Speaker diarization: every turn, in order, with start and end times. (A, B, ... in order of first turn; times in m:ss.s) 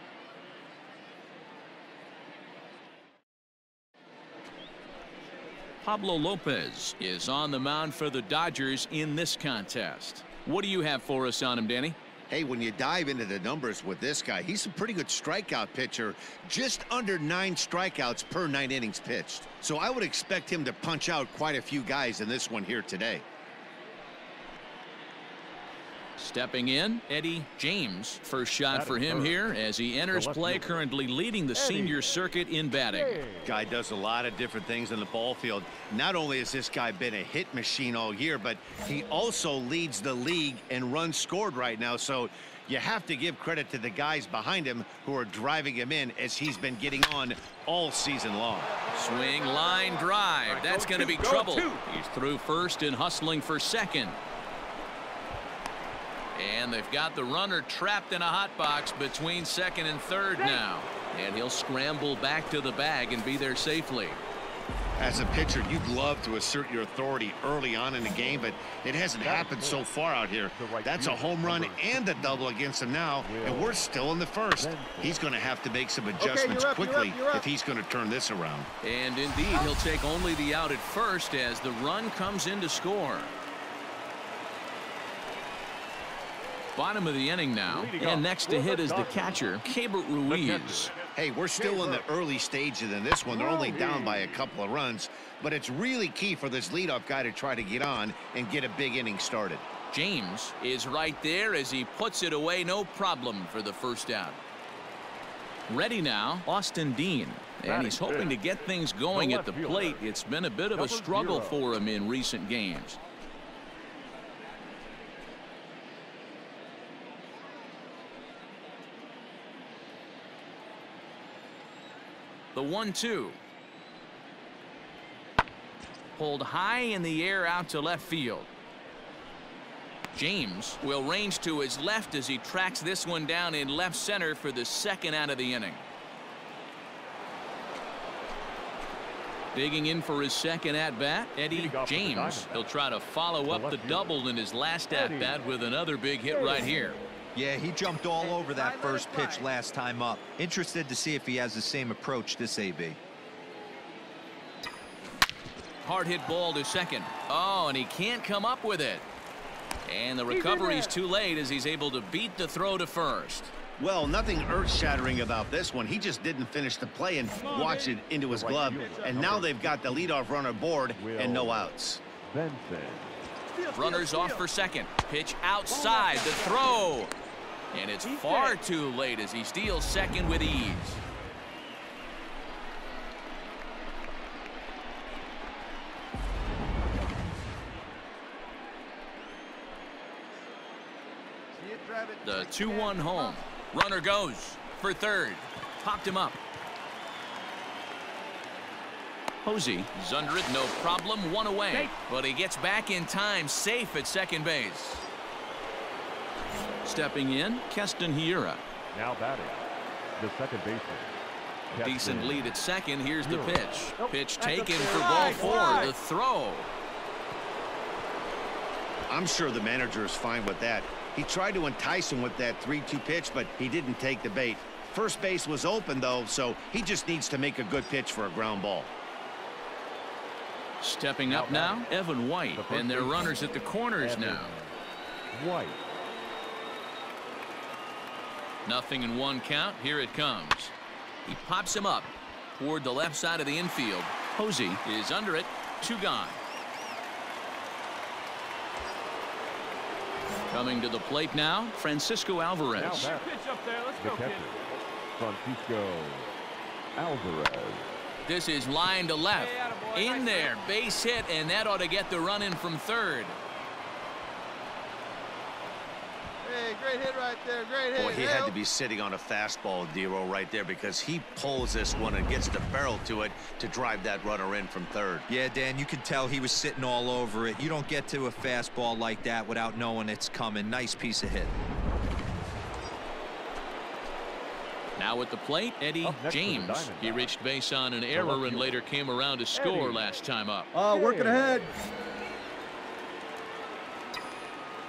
0:05.8-0:12.0 A
0:12.3-0:23.2 B
0:26.2-0:33.2 A
0:28.7-0:29.4 C
0:30.1-0:30.8 C
0:31.5-0:32.0 C
0:32.9-0:33.5 C
0:33.4-0:48.8 B
0:48.6-0:51.7 D
0:48.9-0:54.2 A
0:56.3-1:04.2 A
1:05.0-1:18.7 B
1:09.2-1:09.9 C
1:10.5-1:12.5 C
1:13.2-1:13.9 C
1:14.6-1:15.3 C
1:16.2-1:17.4 D
1:18.8-1:23.3 A
1:26.7-1:30.9 A
1:27.6-1:29.6 C
1:30.3-1:30.9 C
1:31.1-1:39.6 B
1:31.6-1:32.0 C
1:33.3-1:34.5 C
1:39.9-1:44.4 A
1:45.7-1:53.0 A
1:47.6-1:48.4 C
1:49.1-1:50.0 C
1:50.7-1:51.6 C
2:02.5-2:03.4 A
2:06.2-2:08.5 A
2:10.1-2:15.8 A
2:19.5-2:27.0 A
2:21.5-2:22.7 C
2:23.5-2:24.2 C
2:24.9-2:25.5 C
2:26.3-2:26.9 C
2:27.3-2:33.0 E
2:28.2-2:29.4 D
2:35.8-2:39.0 A
2:39.8-2:43.5 A
2:40.3-2:41.0 C
2:43.8-2:52.0 B
2:47.4-2:49.2 D
2:48.3-2:50.2 C
2:51.0-2:51.7 C
2:52.2-2:53.2 C
2:53.5-2:54.5 D
2:53.7-2:57.1 A
2:55.7-2:56.6 D
2:57.7-3:01.0 A
2:58.0-2:58.6 D
3:11.6-3:13.4 D
3:12.2-3:16.4 A
3:19.4-3:25.0 A
3:26.8-3:28.6 A
3:28.9-3:29.6 C
3:30.2-3:31.1 C
3:31.7-3:32.5 C
3:31.8-3:36.7 A
3:33.2-3:35.9 C
3:34.7-3:35.9 D
3:39.1-3:48.9 B
3:50.8-3:54.5 A
3:51.3-3:51.9 C
3:52.5-3:53.4 C
3:54.0-3:54.7 C
3:55.3-3:55.8 C
3:58.6-4:00.7 A
4:01.2-4:06.4 A
4:10.5-4:13.1 A
4:12.7-4:13.4 C
4:13.1-4:14.5 D
4:14.0-4:16.3 C
4:17.0-4:17.9 C
4:18.2-4:23.4 A
4:19.3-4:20.6 D
4:26.4-4:28.5 D
4:27.9-4:35.2 B
4:35.3-4:41.6 E
4:45.0-4:50.7 A
4:46.0-4:47.4 C
4:48.1-4:48.8 C
4:49.5-4:50.0 C
4:50.7-4:51.7 D
4:50.9-4:51.6 C